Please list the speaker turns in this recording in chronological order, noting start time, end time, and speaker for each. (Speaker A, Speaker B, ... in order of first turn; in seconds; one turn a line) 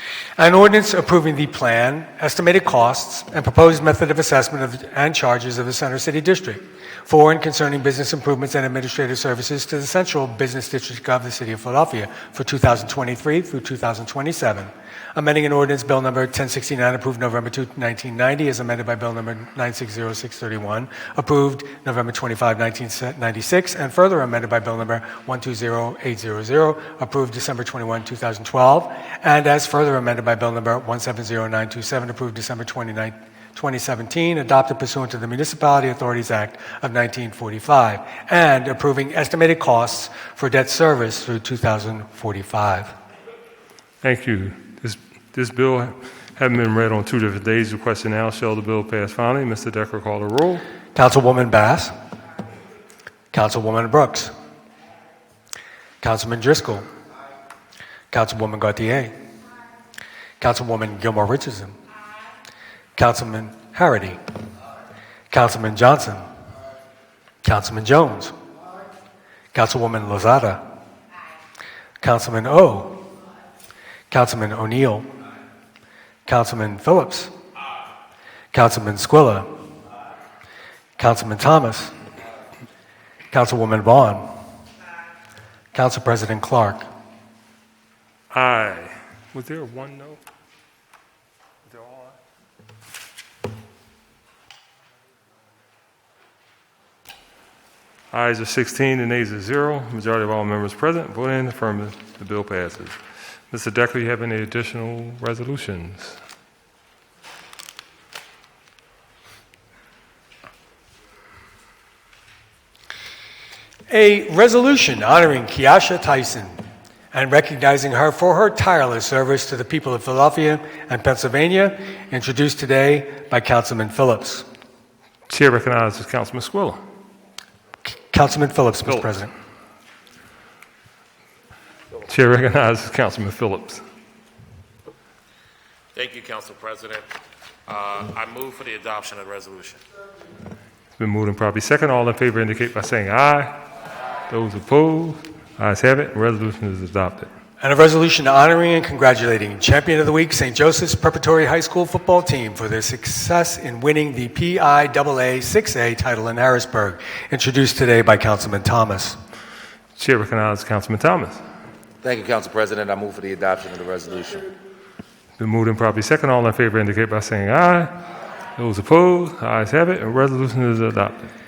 Speaker A: 0.4-42.9
Speaker B: 44.0-50.6
Speaker A: 50.9-51.9
Speaker A: 53.3-54.3
Speaker A: 56.0-56.9
Speaker A: 58.1-59.1
Speaker A: 60.4-61.7
Speaker A: 63.0-64.2
Speaker A: 65.3-66.2
Speaker A: 67.4-68.3
Speaker A: 69.5-70.6
Speaker A: 72.0-73.0
Speaker A: 74.1-75.0
Speaker A: 76.2-77.3
Speaker A: 78.5-79.5
Speaker A: 81.0-81.9
Speaker A: 83.3-84.2
Speaker A: 85.7-86.8
Speaker B: 88.3-90.2
Speaker B: 98.1-103.0
Speaker B: 103.5-106.2
Speaker A: 113.9-116.5
Speaker A: 117.1-124.4
Speaker B: 125.3-126.8
Speaker A: 128.1-129.3
Speaker B: 132.0-133.8
Speaker C: 135.9-137.1
Speaker C: 137.7-139.8
Speaker B: 141.0-143.6
Speaker B: 144.3-147.3
Speaker A: 147.6-159.2
Speaker B: 160.0-161.4
Speaker D: 162.0-164.5
Speaker B: 165.4-167.9
Speaker B: 168.6-171.3